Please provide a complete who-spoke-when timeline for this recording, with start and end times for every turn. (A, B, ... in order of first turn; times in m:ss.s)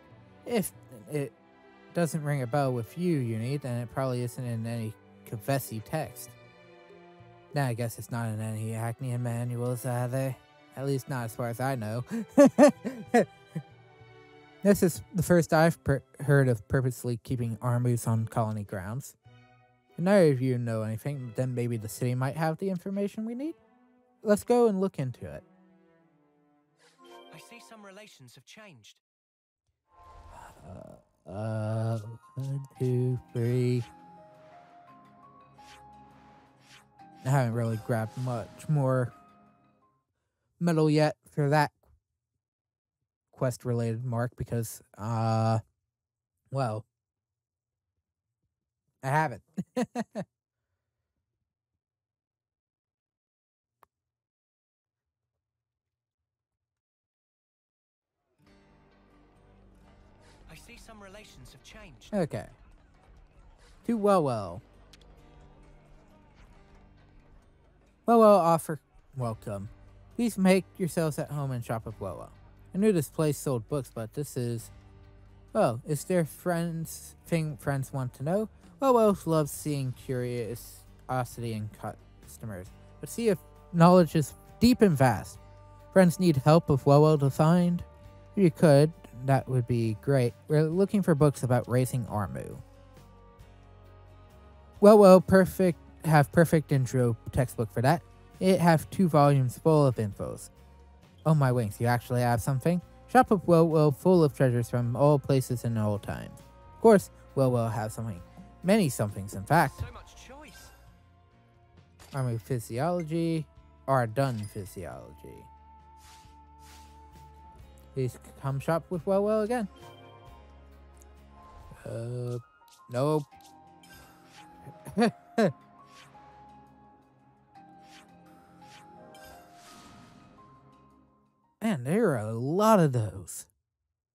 0:00.5-0:01.4 A
0:01.9-0:06.4 A
0:07.5-0:13.3 A
0:14.6-0:19.2 A
0:20.0-0:23.6 A
0:24.2-0:25.4 A
0:27.3-0:29.0 B
0:30.3-0:33.9 A
0:37.2-0:39.1 A
0:40.6-0:41.8 A
0:43.3-0:45.6 A
0:46.5-0:46.9 A
0:49.0-0:50.2 A
1:00.5-1:02.2 B
1:02.1-1:02.5 A
1:03.8-1:04.6 A
1:08.1-1:14.7 A
1:15.5-1:25.4 A
1:25.9-1:32.6 A
1:34.8-1:40.5 A
1:41.2-1:49.8 A
1:49.6-1:50.7 B
1:52.1-1:55.5 A
1:58.0-1:59.7 A
2:01.8-2:03.3 A
2:04.8-2:05.5 A
2:11.6-2:13.5 A